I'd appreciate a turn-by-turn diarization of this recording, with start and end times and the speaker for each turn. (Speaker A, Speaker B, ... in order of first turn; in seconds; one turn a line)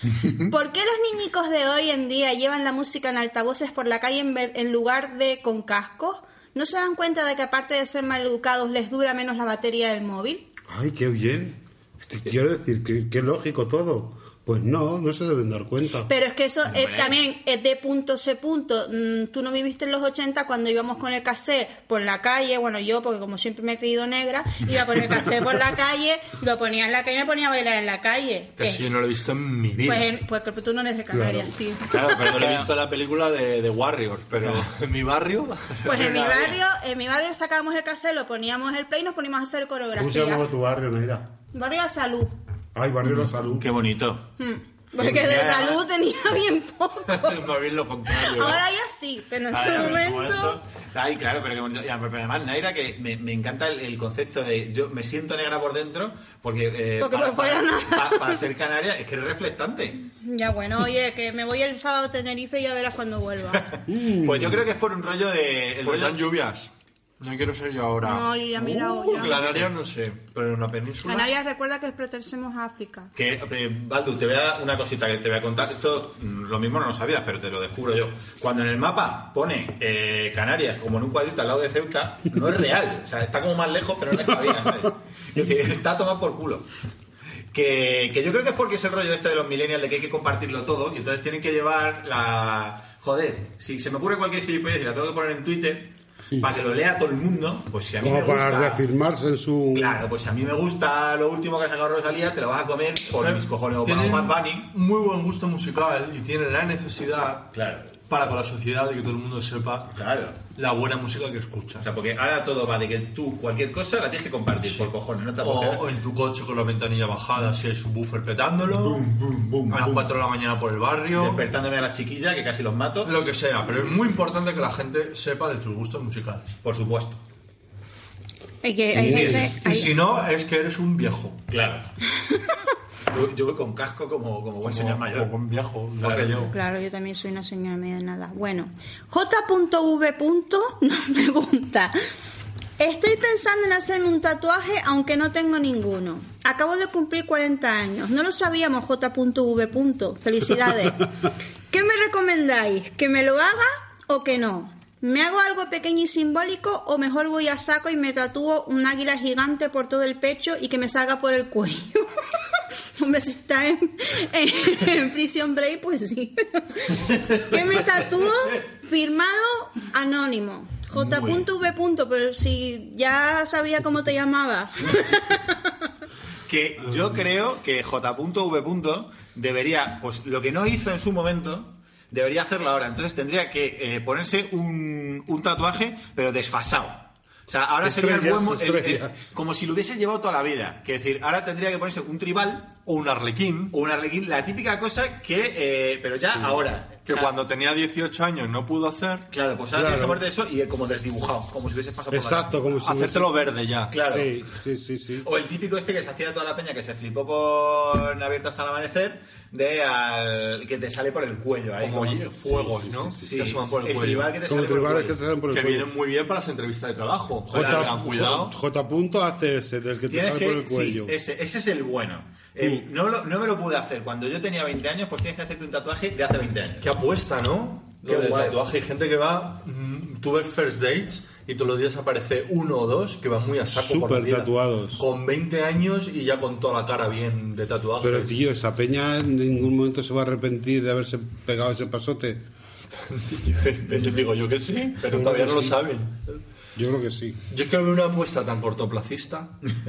Speaker A: 0.5-10.4
Speaker B: 10.7-16.1
Speaker A: 16.1-28.8
Speaker C: 16.7-17.2
Speaker D: 28.6-30.1
Speaker A: 29.8-32.0
Speaker B: 31.1-31.5
Speaker D: 31.9-36.2
Speaker C: 31.9-32.7
Speaker A: 35.8-40.4
Speaker C: 35.9-36.5
Speaker B: 40.0-41.3
Speaker A: 41.5-42.3
Speaker B: 42.7-43.7
Speaker C: 43.6-44.2
Speaker A: 44.4-47.4
Speaker C: 45.0-45.8
Speaker D: 47.1-48.6
Speaker A: 48.1-50.6
Speaker C: 49.5-60.0
Speaker A: 57.0-58.4
Speaker A: 60.2-63.6
Speaker C: 63.5-66.2
Speaker B: 63.9-64.6
Speaker D: 65.8-71.3
Speaker A: 68.0-69.5
Speaker C: 69.2-69.7
Speaker A: 71.0-73.1
Speaker C: 73.1-86.7
Speaker C: 87.5-98.8
Speaker B: 98.0-100.0
Speaker C: 99.7-104.7
Speaker D: 103.1-107.5
Speaker C: 107.5-107.9
Speaker D: 108.1-109.9
Speaker C: 109.9-110.4
Speaker D: 110.5-111.9
Speaker C: 111.8-115.9
Speaker D: 114.6-119.0
Speaker C: 118.6-120.1
Speaker D: 119.7-121.4
Speaker C: 121.1-123.1
Speaker D: 123.0-126.5
Speaker C: 126.6-127.2
Speaker A: 128.6-129.9
Speaker C: 129.0-129.5
Speaker D: 129.0-131.4
Speaker B: 129.0-129.3
Speaker C: 131.5-131.9
Speaker C: 133.1-135.3
Speaker D: 134.6-136.5
Speaker C: 136.0-136.5
Speaker A: 136.5-141.9
Speaker A: 142.8-151.1
Speaker A: 151.7-175.6
Speaker C: 171.1-171.4
Speaker C: 176.5-192.7
Speaker B: 187.8-189.2
Speaker D: 192.8-193.7
Speaker C: 193.7-197.3
Speaker D: 197.1-199.3
Speaker C: 199.3-202.7
Speaker B: 199.7-200.2
Speaker B: 202.1-203.3
Speaker D: 202.8-203.9
Speaker C: 203.9-204.3
Speaker B: 204.0-205.3
Speaker C: 205.2-212.2
Speaker D: 211.8-214.3
Speaker B: 212.5-213.3
Speaker C: 213.2-215.2
Speaker B: 214.4-215.9
Speaker D: 215.5-218.5
Speaker B: 217.5-221.1
Speaker C: 217.5-218.0
Speaker C: 220.1-226.9
Speaker B: 222.6-222.9
Speaker D: 226.8-238.3
Speaker C: 228.0-228.6
Speaker B: 233.7-235.0
Speaker B: 238.0-242.4
Speaker D: 243.0-246.4
Speaker B: 245.0-245.8
Speaker B: 246.7-247.4
Speaker D: 247.5-249.6